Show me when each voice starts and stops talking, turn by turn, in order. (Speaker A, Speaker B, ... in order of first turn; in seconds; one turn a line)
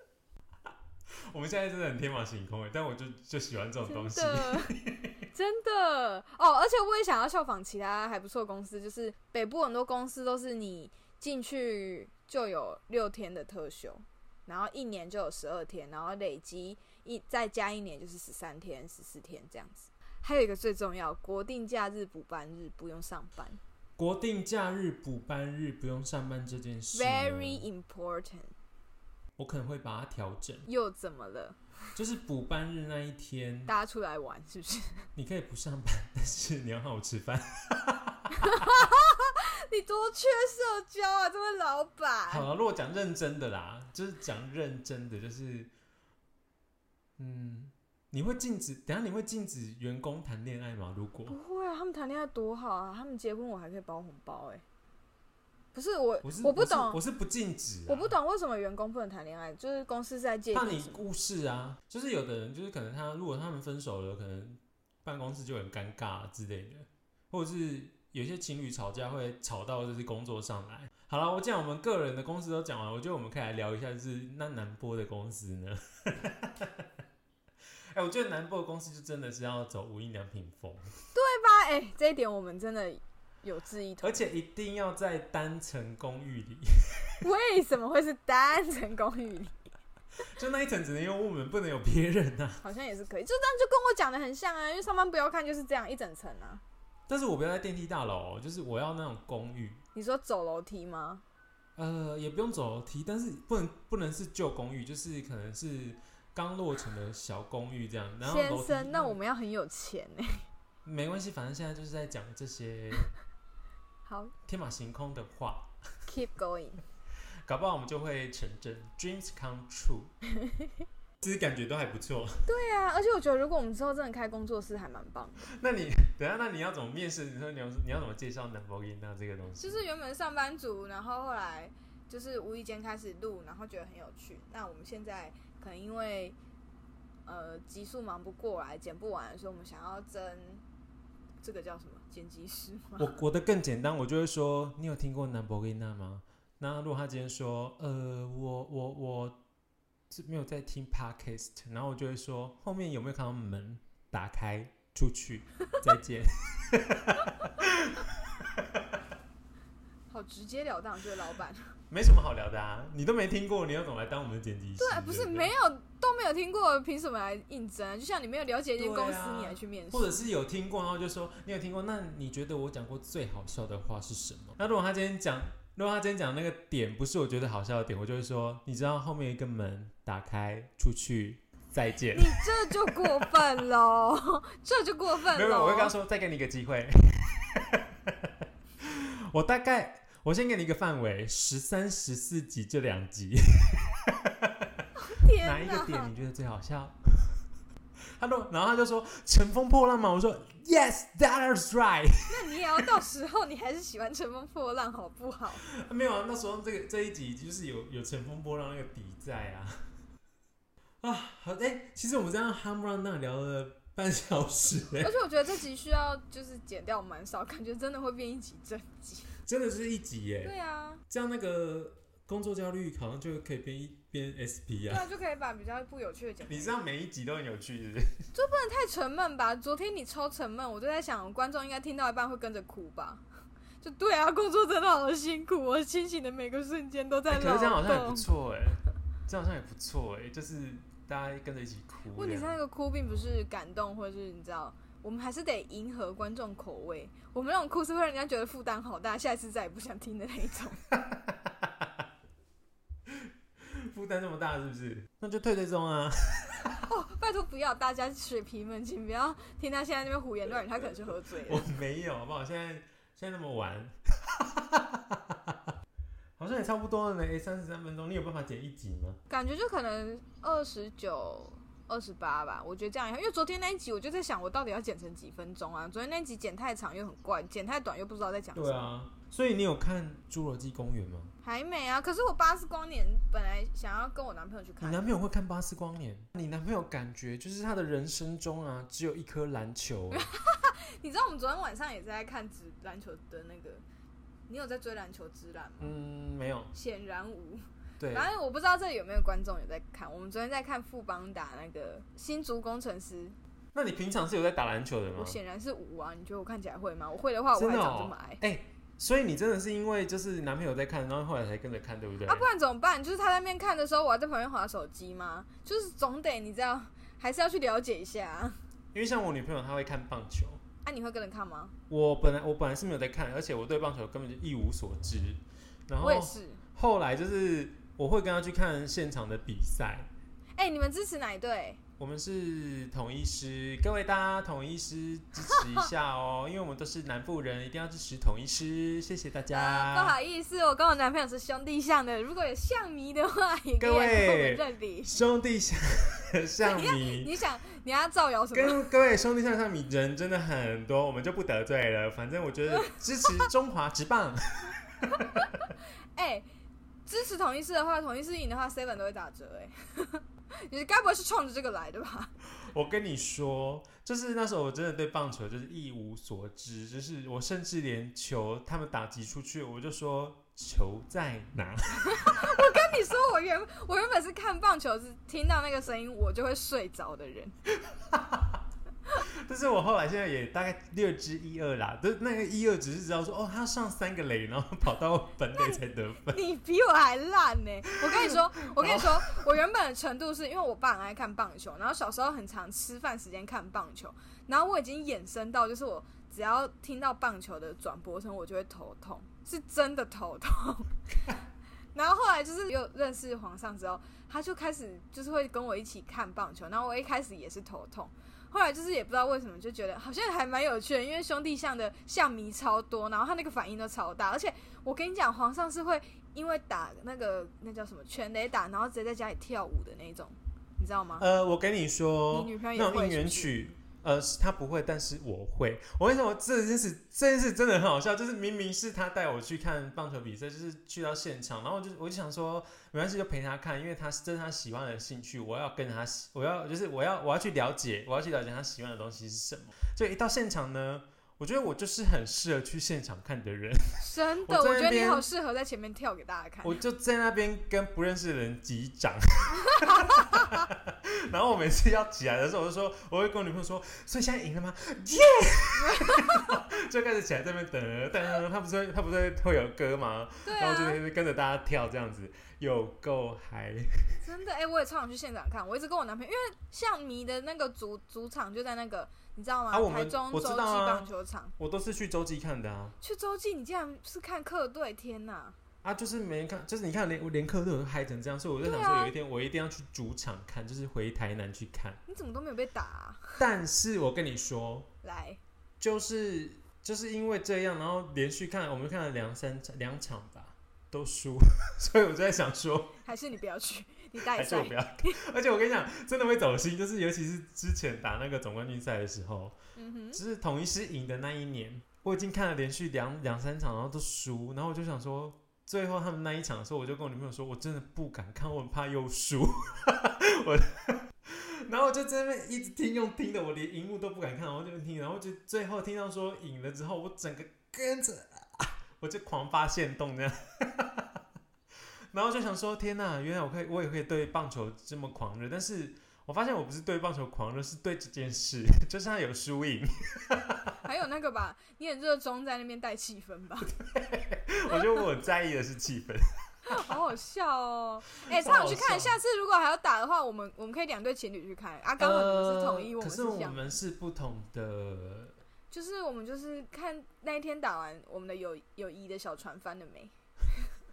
Speaker A: 1.3-5.1
Speaker B: 3.9-4.8
Speaker B: 5.3-23.6
Speaker A: 24.0-27.6
Speaker B: 26.9-28.5
Speaker A: 29.4-30.6
Speaker B: 30.6-31.6
Speaker A: 31.9-33.7
Speaker B: 33.7-35.1
Speaker A: 35.1-38.9
Speaker B: 38.4-42.5
Speaker A: 42.3-45.7
Speaker A: 47.2-51.4
Speaker B: 51.3-54.6
Speaker B: 55.7-57.0
Speaker A: 56.2-58.1
Speaker B: 57.9-61.0
Speaker A: 60.5-76.9
Speaker A: 77.9-80.9
Speaker B: 81.1-84.2
Speaker A: 84.0-87.2
Speaker B: 87.2-89.6
Speaker A: 90.3-92.6
Speaker B: 92.6-96.6
Speaker A: 97.1-99.8
Speaker B: 99.9-101.2
Speaker A: 101.8-109.2
Speaker B: 108.2-110.4
Speaker A: 110.8-113.1
Speaker B: 114.1-114.3
Speaker A: 114.5-115.8
Speaker B: 116.1-116.8
Speaker A: 117.5-120.1
Speaker B: 120.3-120.8
Speaker A: 121.2-122.4
Speaker B: 122.5-125.5
Speaker A: 125.5-129.8
Speaker B: 129.6-136.4
Speaker B: 137.3-140.6
Speaker B: 141.4-143.1
Speaker A: 143.0-149.4
Speaker A: 150.1-158.9
Speaker B: 160.1-161.7
Speaker A: 161.9-165.5
Speaker B: 164.8-170.2
Speaker A: 168.8-183.5
Speaker B: 182.1-185.9
Speaker A: 185.2-194.8
Speaker B: 194.9-196.1
Speaker A: 195.4-197.4
Speaker A: 198.2-202.8
Speaker B: 202.3-205.6
Speaker A: 205.6-209.7
Speaker A: 211.0-215.1
Speaker B: 215.0-219.3
Speaker A: 219.4-220.5
Speaker B: 220.4-221.0
Speaker A: 221.1-225.1
Speaker B: 224.9-226.8
Speaker A: 226.4-228.1
Speaker B: 228.3-233.2
Speaker B: 233.8-238.3
Speaker A: 237.3-242.6
Speaker B: 242.1-250.8
Speaker A: 250.9-251.9
Speaker A: 253.1-256.8
Speaker B: 256.7-261.6
Speaker A: 261.4-265.7
Speaker A: 266.4-269.2
Speaker B: 269.3-278.8
Speaker A: 278.6-281.3
Speaker B: 281.4-285.0
Speaker A: 284.8-290.3
Speaker B: 290.1-293.8
Speaker B: 294.5-295.9
Speaker A: 295.8-296.7
Speaker B: 296.7-303.4
Speaker A: 298.0-298.3
Speaker A: 303.7-305.4
Speaker B: 305.1-308.4
Speaker A: 307.5-312.4
Speaker B: 312.3-318.6
Speaker A: 318.9-320.6
Speaker B: 320.9-321.7
Speaker A: 321.9-330.1
Speaker B: 326.0-326.6
Speaker B: 330.6-331.8
Speaker A: 332.0-340.1
Speaker B: 335.4-335.9
Speaker B: 339.5-345.1
Speaker A: 343.8-347.3
Speaker B: 346.6-348.8
Speaker A: 348.5-355.5
Speaker B: 352.8-353.4
Speaker B: 355.1-355.6
Speaker B: 356.1-356.4
Speaker B: 357.1-362.3
Speaker A: 362.6-372.6
Speaker B: 371.9-377.6
Speaker A: 377.8-378.6
Speaker A: 379.2-386.4
Speaker B: 386.3-401.0
Speaker A: 388.0-389.4
Speaker B: 401.9-421.3
Speaker A: 421.2-445.3
Speaker B: 422.3-423.6
Speaker B: 444.0-446.8
Speaker A: 446.6-463.9
Speaker B: 449.7-450.6
Speaker B: 455.8-456.6
Speaker B: 460.4-461.0
Speaker B: 464.2-471.5
Speaker A: 469.7-471.1
Speaker A: 471.6-472.9
Speaker B: 473.0-475.6
Speaker A: 475.8-482.0
Speaker B: 478.6-479.1
Speaker B: 482.1-483.4
Speaker A: 483.4-484.9
Speaker B: 485.0-485.4
Speaker A: 485.8-493.0
Speaker B: 493.1-495.2
Speaker A: 494.2-499.6
Speaker B: 499.8-500.2
Speaker A: 500.1-521.1
Speaker A: 522.1-530.8
Speaker B: 530.8-533.7
Speaker A: 533.6-536.8
Speaker B: 536.7-543.6
Speaker A: 538.2-539.2
Speaker A: 542.0-545.4
Speaker B: 545.7-550.7